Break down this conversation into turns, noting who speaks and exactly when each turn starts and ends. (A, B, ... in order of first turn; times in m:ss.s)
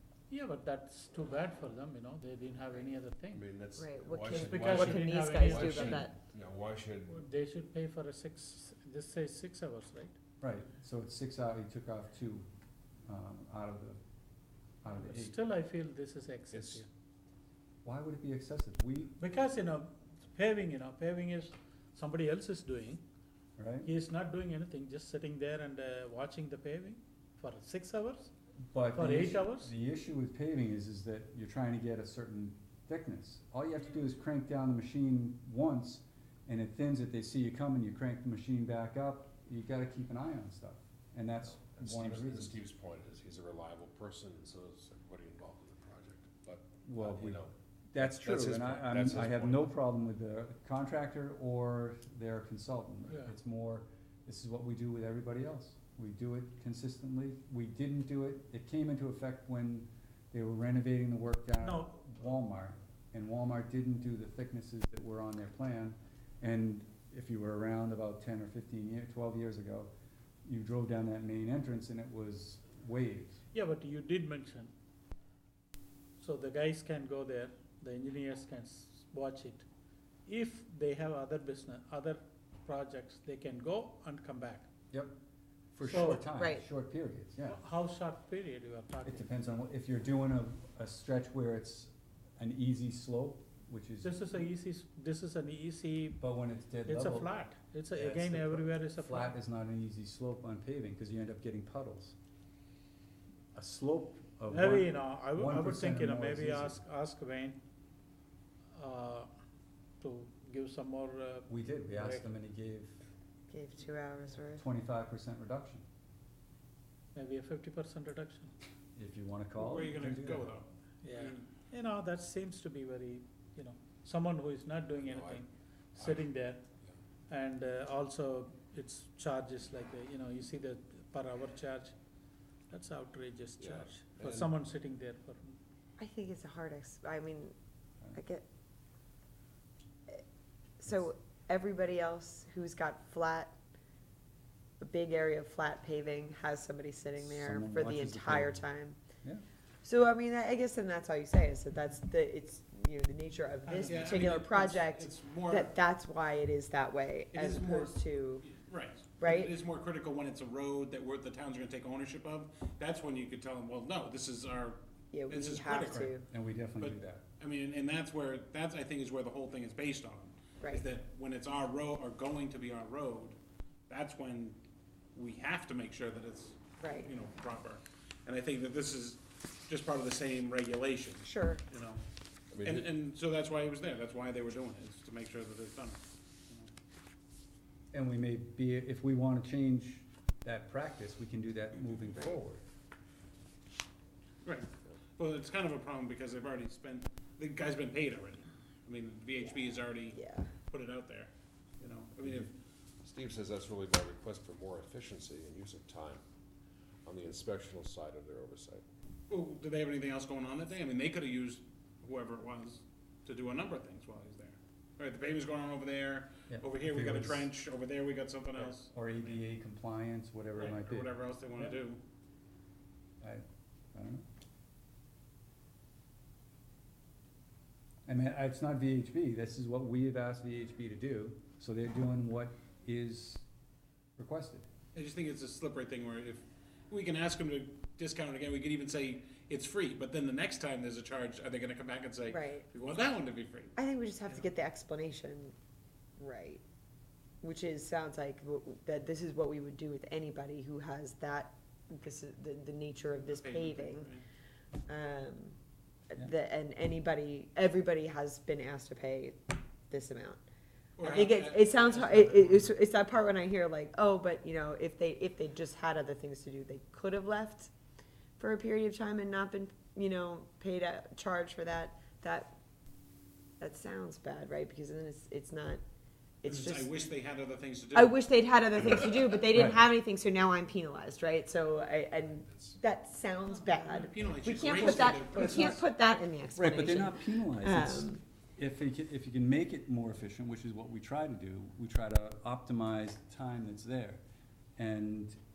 0:00.3-0:03.4 A
0:03.3-0:07.3 B
0:03.8-0:06.1 C
0:04.4-0:06.1 A
0:07.1-0:10.2 A
0:10.4-0:12.5 D
0:13.0-0:14.0 D
0:14.8-0:15.3 D
0:14.8-0:16.9 A
0:16.5-0:16.8 B
0:17.8-0:19.2 D
0:19.2-0:23.0 A
0:23.6-0:23.9 D
0:23.8-0:28.3 A
0:28.7-0:42.6 D
0:28.9-0:29.7 A
0:41.6-0:49.7 B
0:46.8-0:47.4 D
0:47.9-1:09.9 D
1:01.6-1:02.0 A
1:10.4-1:13.4 D
1:13.5-1:14.7 A
1:16.2-1:19.7 A
1:20.2-1:24.7 A
1:25.7-1:27.6 D
1:25.8-1:26.3 A
1:26.3-1:26.6 C
1:27.4-1:29.3 A
1:29.0-1:34.1 D
1:34.0-1:36.2 A
1:36.2-1:37.3 D
1:36.8-1:39.3 A
1:38.0-1:42.2 D
1:43.5-1:46.8 D
1:44.5-1:47.6 A
1:48.7-1:49.3 A
1:50.0-1:52.3 A
1:51.5-1:53.0 D
1:53.5-1:54.6 C
1:54.6-1:55.8 D
1:57.1-1:58.5 A
1:59.0-2:00.5 D
1:59.6-2:01.4 E
2:01.0-2:06.6 A
2:05.0-2:05.4 B
2:06.0-2:06.3 B
2:07.3-2:11.9 A
2:12.7-2:15.6 A
2:13.6-2:14.5 B
2:16.0-2:17.5 C
2:18.1-2:18.4 C
2:20.8-2:23.6 C
2:24.8-2:29.0 C
2:27.2-2:28.6 D
2:29.8-2:38.5 C
2:33.8-2:35.7 E
2:37.3-2:46.1 E
2:39.2-2:39.5 C
2:45.1-2:46.3 C
2:45.9-2:47.2 D
2:46.8-2:53.4 E
2:53.9-2:54.6 E
2:55.1-3:02.0 E
2:56.8-2:57.1 C
3:01.2-3:01.6 C
3:02.5-3:02.9 B
3:02.6-3:06.7 E
3:07.9-3:12.6 D
3:14.4-3:20.2 E
3:19.4-3:20.5 C
3:20.7-3:22.5 E
3:23.0-3:26.2 B
3:27.0-3:28.8 B
3:29.3-3:39.0 E
3:36.5-3:37.5 D
3:38.7-3:41.1 D
3:40.6-3:42.0 E
3:43.2-3:44.2 D
3:48.0-3:53.4 D
3:54.2-3:54.7 D
3:54.9-4:03.7 E
4:02.3-4:02.7 C
4:03.8-4:05.5 C
4:06.2-4:06.6 C
4:07.4-4:14.1 C
4:13.2-4:14.2 E
4:14.9-4:15.6 C
4:16.1-4:20.4 C
4:21.0-4:22.7 E
4:21.0-4:27.7 C
4:28.4-4:32.5 C
4:33.6-4:35.8 C
4:36.4-4:36.9 C
4:36.4-4:38.2 E
4:37.9-4:48.2 C
4:39.5-4:39.8 D
4:42.5-4:42.8 B
4:43.9-4:45.8 E
4:45.4-4:45.7 D
4:46.6-4:54.2 D
4:54.8-4:55.4 D